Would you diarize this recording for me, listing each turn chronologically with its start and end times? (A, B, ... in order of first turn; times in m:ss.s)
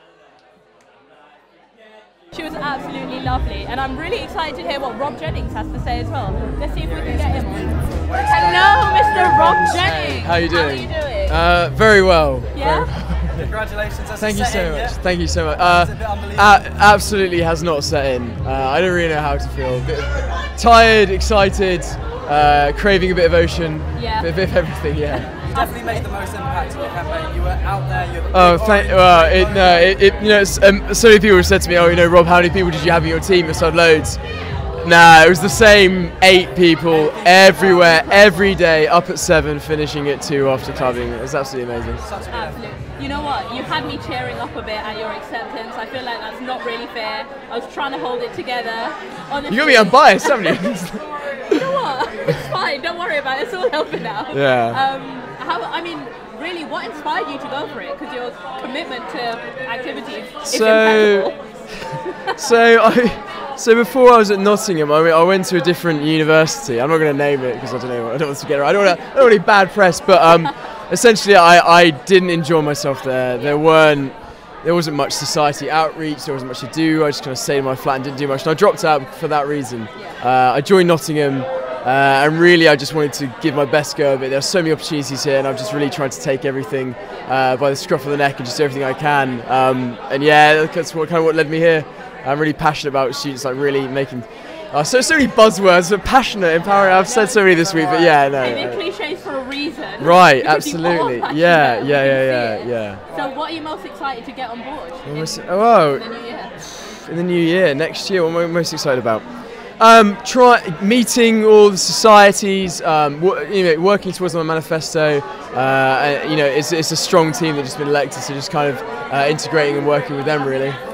0:02.3-0:11.4 A
0:06.8-0:09.7 B
0:09.6-0:13.6 C
0:12.5-0:13.0 A
0:13.4-0:15.0 B
0:14.2-0:25.3 C
0:15.5-0:16.7 B
0:23.9-0:26.1 A
0:25.2-0:30.4 B
0:28.3-0:42.0 C
0:36.9-0:38.6 B
0:42.0-0:42.8 B
0:42.3-0:50.6 A
0:49.5-0:51.5 C
0:51.5-1:02.0 A
0:54.3-0:54.8 C
1:00.4-1:01.6 C
1:02.4-1:38.8 C
1:19.9-1:20.2 A
1:36.7-1:38.8 B
1:38.4-1:46.6 A
1:40.0-1:43.0 C
1:45.0-1:46.4 C
1:47.0-2:00.8 C